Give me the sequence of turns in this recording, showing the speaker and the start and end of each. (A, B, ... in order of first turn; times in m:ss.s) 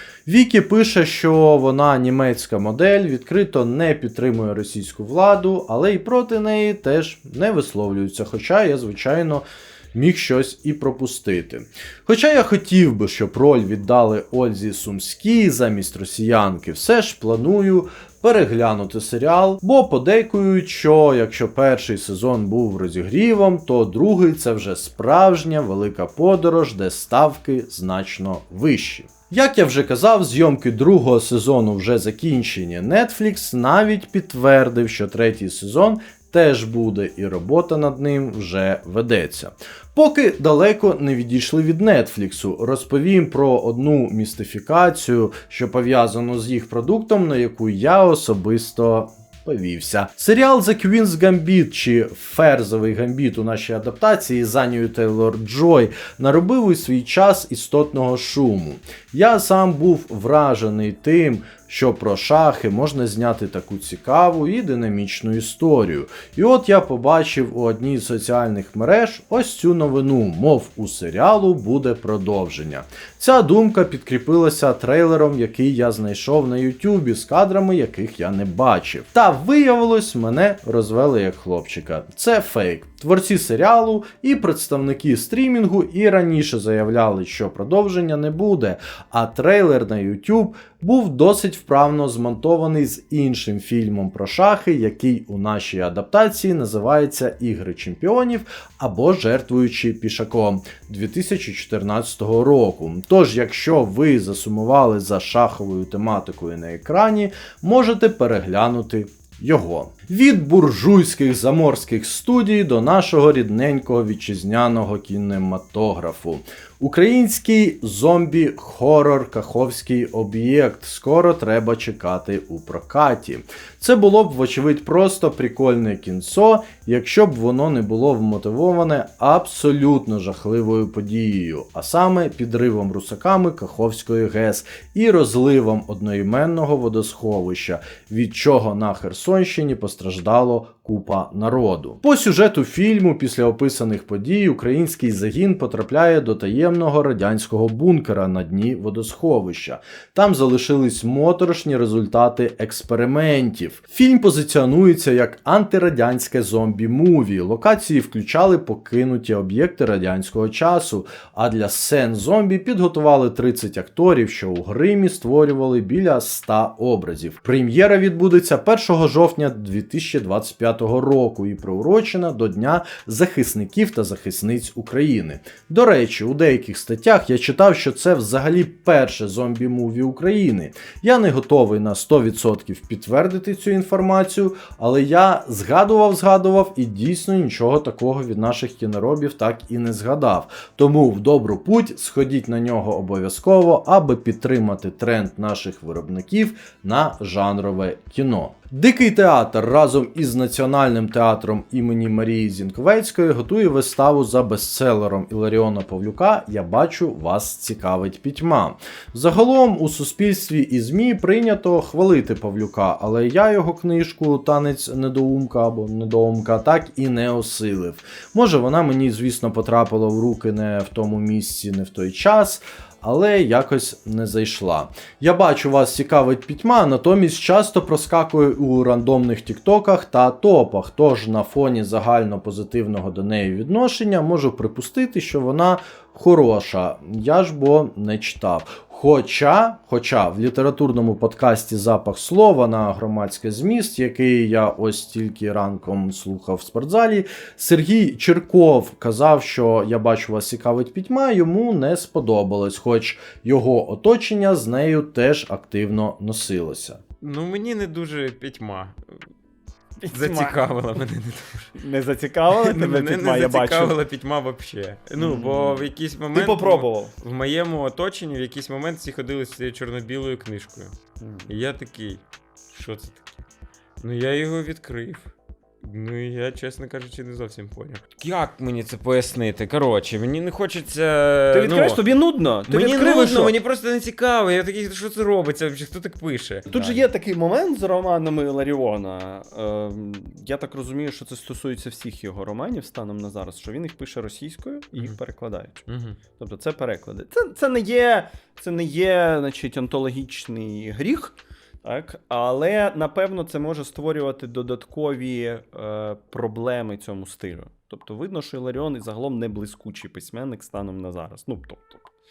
0:00.2-4:17.0 A
4:17.2-4:19.0 B
4:20.0-4:20.6 C
4:20.1-4:21.7 B
4:21.7-4:24.0 C
4:22.5-4:30.9 B
4:25.2-4:27.2 C
4:31.2-4:31.6 C
4:31.5-4:33.4 B
4:34.0-4:35.3 B
4:35.8-4:42.0 B
4:41.5-4:43.6 C
4:42.7-4:47.1 B
4:46.7-5:12.0 C
4:55.9-4:56.2 B